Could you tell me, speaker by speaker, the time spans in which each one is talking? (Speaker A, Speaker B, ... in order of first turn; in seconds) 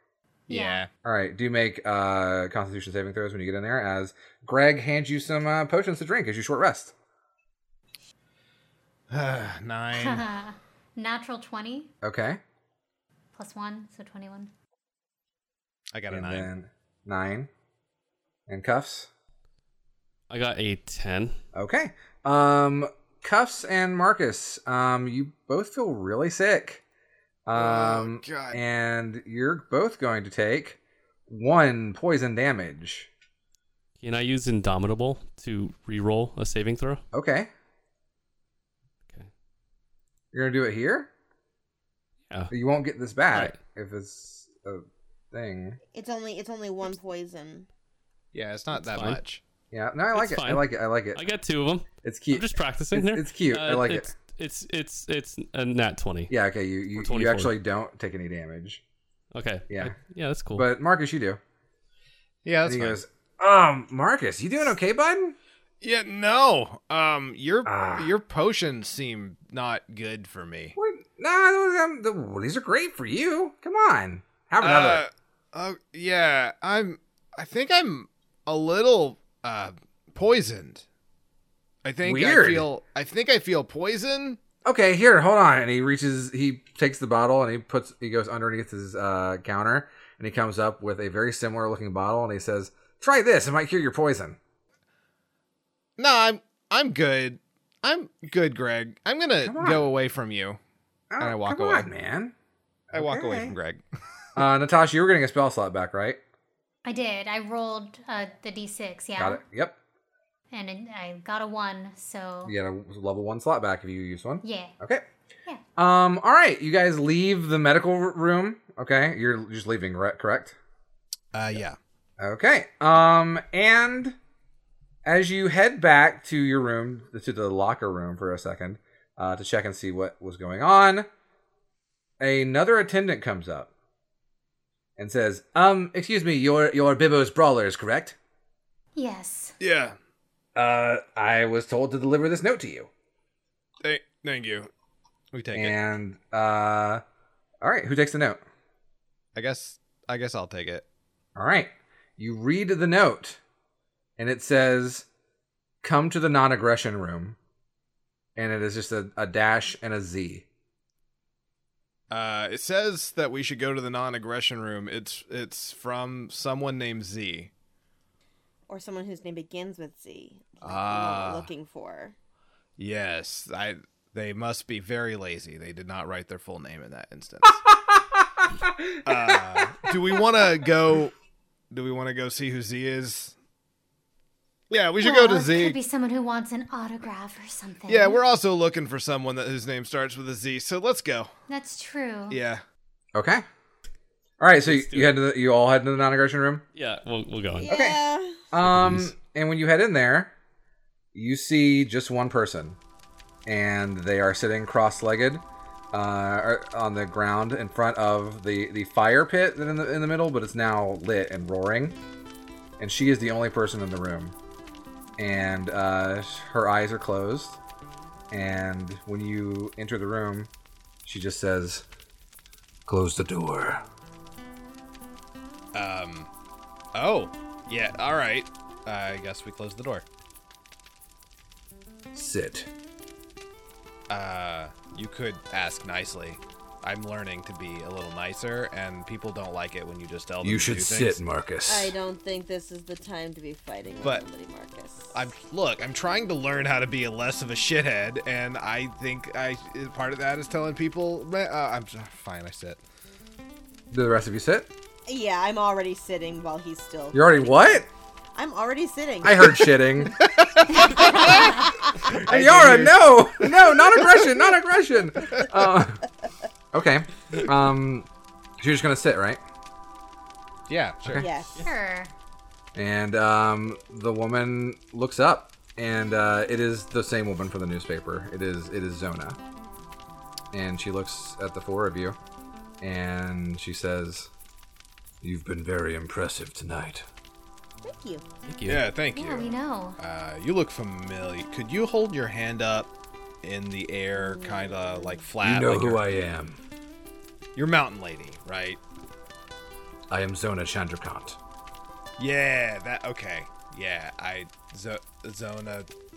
Speaker A: 0.5-0.8, 9.9-11.9, 13.3-14.5, 106.8-109.4, 110.5-112.6, 114.4-114.8, 139.0-139.6, 185.0-188.2, 191.5-192.4, 271.6-272.1, 289.1-290.0
Speaker B: 0.5-0.9, 9.1-10.3, 15.9-16.5, 27.5-28.6, 48.3-49.4, 62.5-63.0, 65.8-70.8, 74.6-80.8, 81.8-84.4, 96.0-100.6, 101.2-101.9, 102.9-103.8, 121.3-121.8, 139.6-139.9, 143.8-144.7, 145.3-145.8, 149.3-150.8, 162.1-167.5, 170.6-171.5, 172.8-177.6, 179.0-181.1, 181.7-183.3, 184.7-185.8, 187.9-191.3, 192.3-192.6, 225.7-226.3, 226.9-230.1, 234.1-241.2, 245.1-252.8, 260.1-263.7, 270.7-271.3, 288.7-292.9, 293.4-296.0, 297.6-298.8, 302.2-305.9
Speaker C: 1.0-7.0, 12.0-12.4, 16.1-17.5, 18.5-19.1, 21.6-26.8, 27.5-33.1, 37.1-37.5, 40.3-41.1, 42.5-45.8, 49.7-51.2, 52.0-54.1, 56.3-58.8, 59.7-60.0, 60.5-61.4, 62.6-65.4, 67.7-68.1, 70.8-75.0, 82.0-82.7, 84.7-94.4, 99.4-99.9, 101.1-102.3, 102.9-103.6, 104.4-106.2, 109.2-109.8, 112.5-115.0, 115.8-120.6, 122.2-124.2, 125.0-131.1, 132.2-133.7, 135.0-138.2, 140.6-142.9, 145.5-147.0, 147.6-148.4, 151.4-153.4, 154.2-155.1, 155.8-157.4, 158.4-160.5, 178.2-179.3, 193.2-193.4, 194.4-196.7, 197.7-198.0, 198.5-200.3, 201.1-202.8, 203.5-212.0, 212.8-214.3, 215.2-217.6, 218.3-220.5, 221.1-221.9, 222.9-223.8, 232.2-232.7, 240.4-241.8, 253.9-254.7, 257.1-257.9, 259.2-260.2, 262.3-266.0, 266.7-268.1, 268.6-269.4, 272.8-279.4, 280.5-282.2, 282.8-284.3, 285.2-287.0, 295.4-296.6, 300.1-301.4
Speaker D: 20.3-21.4, 34.0-37.0, 43.3-43.6, 48.7-49.2, 50.1-56.3, 57.0-57.5, 59.3-60.7, 194.7-195.2, 196.8-197.7, 198.6-199.1, 288.5-288.9
Speaker E: 45.9-47.7, 168.7-172.2, 197.6-198.4, 241.7-245.2, 255.1-257.7, 258.4-259.6, 260.8-262.1, 271.2-271.6, 287.8-288.2, 294.4-294.9